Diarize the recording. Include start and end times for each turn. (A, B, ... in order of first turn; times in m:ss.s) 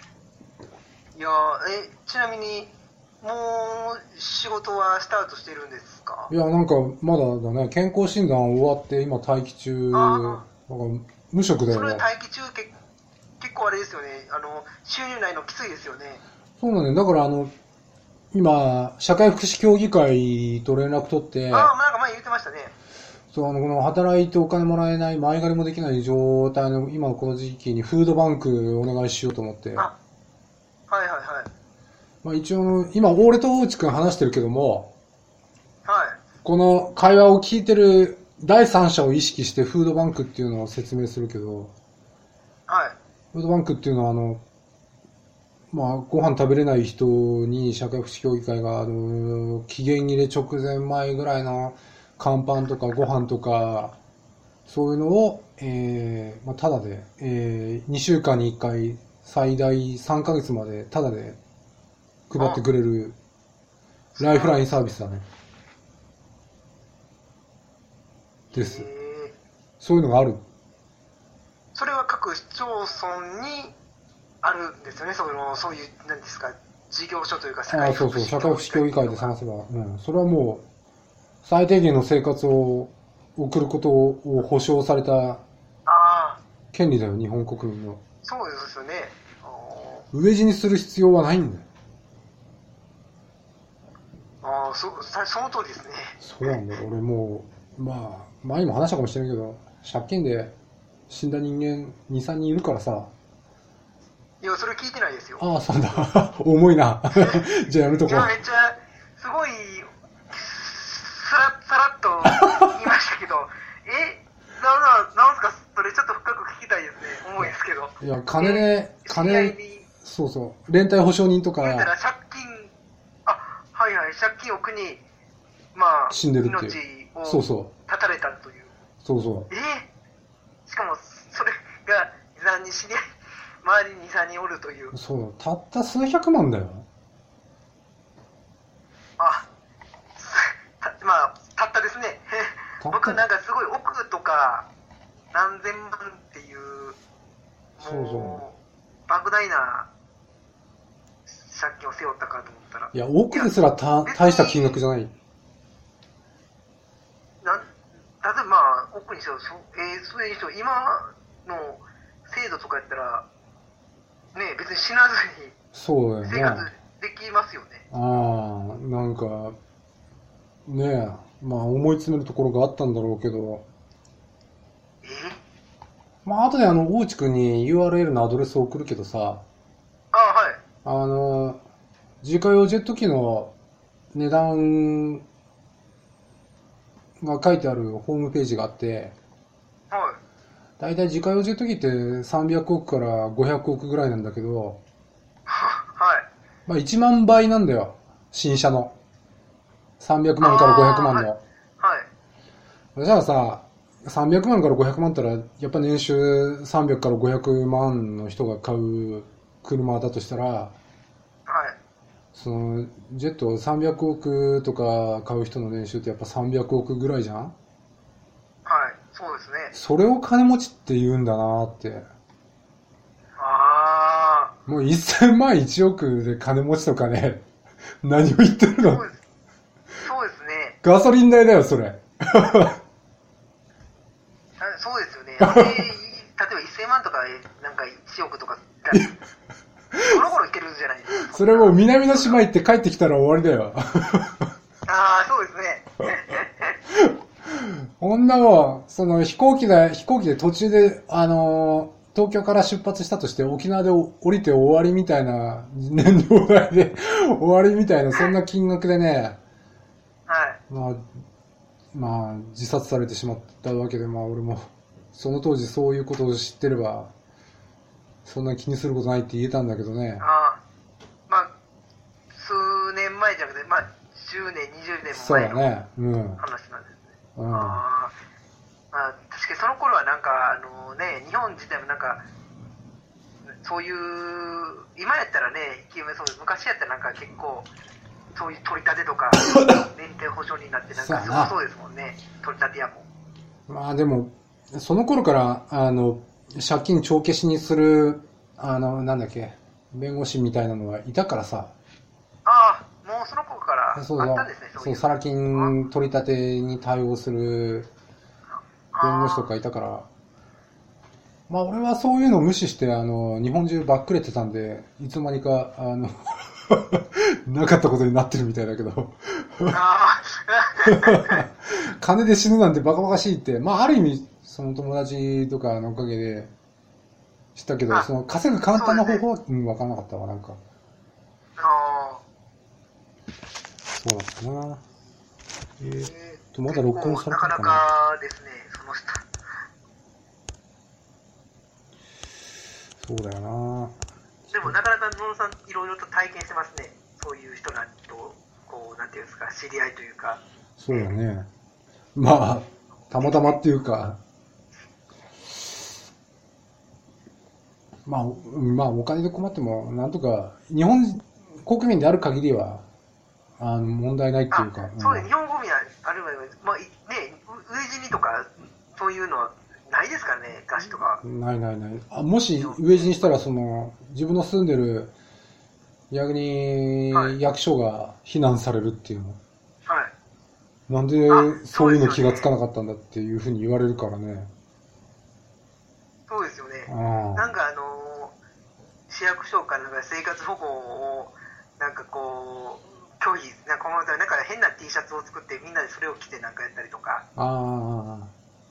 0:01.1-0:06.3 A
0:06.3-0:12.0 B
0:09.9-0:10.4 A
0:11.7-0:12.7 A
0:13.4-0:16.2 A
0:16.6-0:17.5 B
0:18.3-0:21.7 B
0:21.5-0:22.7 A
0:23.3-0:29.9 B
0:30.9-0:31.5 A
0:32.2-0:34.9 B
0:35.8-0:36.2 A
0:36.4-0:41.7 B
0:42.7-0:43.0 A
0:43.3-0:44.4 B
0:45.7-0:54.0 B
0:54.7-1:01.4 B
1:02.3-1:03.2 B
1:04.2-1:04.6 A
1:04.2-1:05.2 B
1:08.5-1:09.3 A
1:08.5-1:08.8 B
1:09.8-1:10.4 B
1:11.7-1:13.7 A
1:14.4-1:19.3 A
1:17.7-1:20.6 B
1:21.4-1:25.4 B
1:25.8-1:26.4 A
1:26.7-1:28.0 B
1:28.2-1:30.0 A
1:30.1-1:31.7 B
1:34.4-1:36.5 A
1:36.2-1:40.5 B
1:41.1-1:43.1 B
1:44.4-1:45.4 A
1:45.4-1:48.3 B
1:47.1-1:47.4 A
1:48.1-1:59.9 A
1:57.4-2:01.9 B
2:01.6-2:02.7 A
2:03.2-2:05.0 A
2:05.7-2:08.7 A
2:06.1-2:07.7 B
2:09.0-2:09.5 B
2:09.5-2:09.9 A
2:10.6-2:13.0 A
2:13.6-2:14.9 A
2:14.9-2:16.8 B
2:19.2-2:19.5 A
2:20.2-2:24.7 A
2:22.8-2:23.2 B
2:25.3-2:27.0 A
2:27.8-2:28.4 B
2:27.8-2:29.9 A
2:31.3-2:33.5 A
2:32.9-2:35.1 B
2:34.0-2:34.8 A
2:37.4-2:43.2 A
2:44.3-2:45.5 A
2:45.7-2:46.7 B
2:46.2-2:47.8 A
2:47.9-2:49.6 B
2:50.6-2:53.6 B
2:55.0-2:55.4 A
2:56.2-2:59.4 B
3:00.1-3:00.6 A
3:00.8-3:01.6 B
3:02.2-3:03.5 B
3:04.1-3:05.2 B
3:07.2-3:09.1 B
3:09.9-3:10.2 A
3:10.8-3:14.8 B
3:15.5-3:16.3 A
3:16.7-3:18.9 B
3:20.0-3:21.4 B
3:20.4-3:21.3 A
3:21.8-3:22.1 A
3:23.0-3:30.7 B
3:31.5-3:31.8 A
3:32.3-3:37.5 B
3:38.6-3:39.7 A
3:39.7-3:42.0 B
3:43.4-3:44.5 A
3:44.6-3:47.4 B
3:48.0-3:49.0 B
3:48.7-3:49.2 A
3:50.0-3:50.8 A
3:50.8-3:52.8 B
3:54.6-3:59.1 A
3:55.4-3:55.8 B
4:00.0-4:02.4 A
4:01.3-4:04.5 B
4:04.8-4:06.8 A
4:06.9-4:19.4 B
4:20.3-4:20.6 A
4:20.7-4:21.0 B
4:21.9-4:27.1 B
4:28.2-4:30.2 B
4:30.2-4:30.6 A
4:32.3-4:35.7 A
4:35.1-4:36.4 B
4:36.4-4:38.1 A
4:37.4-4:37.8 B
4:38.9-4:42.2 A
4:43.6-4:47.7 A
4:48.3-4:53.0 A
4:51.0-4:51.5 B
4:53.7-5:01.7 B
5:02.4-5:05.8 A
5:03.9-5:07.9 B
5:08.9-5:09.5 A
5:09.0-5:10.1 B
5:11.5-5:19.8 B
5:19.7-5:21.4 A
5:20.8-5:26.5 B
5:27.5-5:30.6 B
5:28.7-5:29.2 A
5:31.6-5:32.2 A
5:33.9-5:34.8 B
5:35.8-5:37.8 B
5:36.0-5:39.2 A
5:43.0-5:44.0 B
5:44.5-5:50.4 A
5:50.8-5:51.5 B
5:52.1-5:54.2 B
5:53.2-5:53.6 A
5:58.0-6:02.8 B
6:03.6-6:05.3 B
6:04.5-6:11.2 A
6:11.2-6:15.1 B
6:12.6-6:13.3 A
6:16.1-6:19.4 B
6:19.9-6:20.1 A
6:20.9-6:24.5 B
6:21.3-6:22.5 A
6:26.3-6:28.4 A
6:26.9-6:27.5 B
6:29.1-6:37.2 A
6:37.4-6:38.3 B